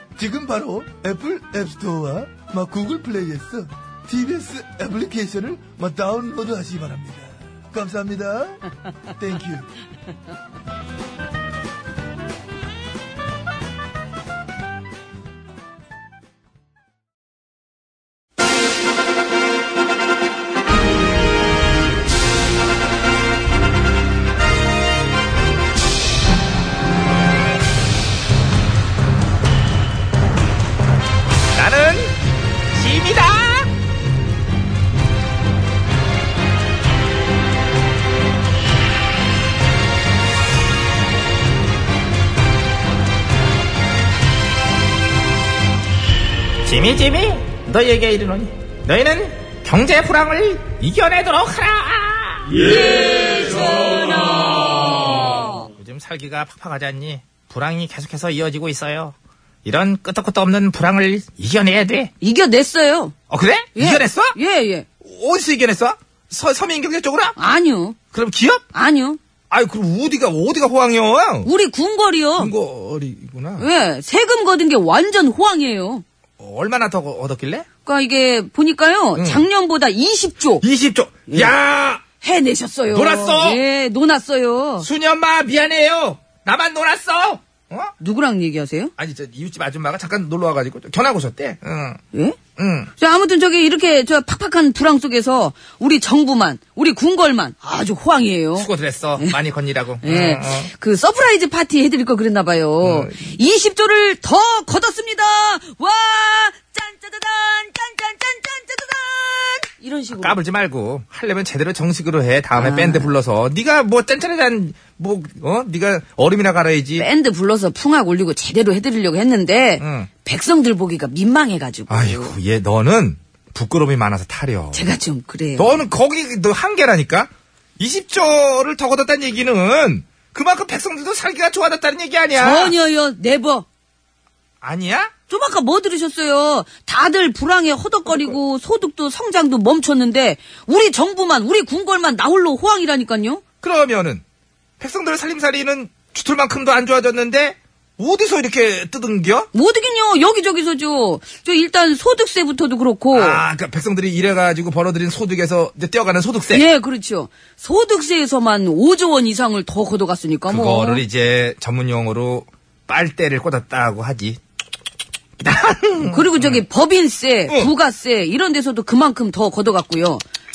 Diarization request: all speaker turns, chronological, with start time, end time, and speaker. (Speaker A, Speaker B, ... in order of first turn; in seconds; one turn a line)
Speaker A: 0.2-9.7
Speaker B: 31.6-32.2
Speaker B: 32.7-33.7
Speaker B: 46.6-52.6
Speaker C: 52.6-55.7
Speaker B: 55.0-62.1
Speaker C: 62.2-63.2
Speaker B: 63.3-64.4
Speaker C: 63.8-64.9
Speaker B: 65.0-67.4
Speaker C: 67.4-68.0
Speaker B: 68.1-68.6
Speaker C: 68.7-69.2
Speaker B: 69.5-71.5
Speaker C: 71.4-72.5
Speaker B: 72.4-73.7
Speaker C: 73.6-76.0
Speaker B: 76.4-77.7
Speaker C: 77.8-80.7
Speaker B: 79.2-79.5
Speaker B: 80.6-82.0
Speaker C: 81.3-81.5
Speaker C: 82.2-84.9
Speaker B: 82.9-83.6
Speaker B: 84.8-87.9
Speaker C: 88.0-88.9
Speaker B: 89.0-92.0
Speaker C: 92.1-92.4
Speaker B: 92.6-92.9
Speaker C: 93.0-99.4
Speaker B: 98.6-100.7
Speaker C: 100.0-110.4
Speaker B: 102.8-103.1
Speaker B: 110.1-117.1
Speaker C: 112.5-113.1
Speaker C: 117.0-122.3
Speaker B: 119.8-120.1
Speaker B: 121.9-124.8
Speaker C: 124.7-125.9
Speaker B: 125.6-132.7
Speaker C: 132.4-133.7
Speaker B: 134.6-135.1
Speaker C: 135.3-143.4
Speaker B: 143.6-144.2
Speaker B: 144.8-149.5
Speaker C: 149.5-153.4
Speaker B: 153.1-156.7
Speaker C: 156.5-161.0
Speaker B: 160.5-164.4
Speaker B: 165.4-166.6
Speaker C: 166.0-170.2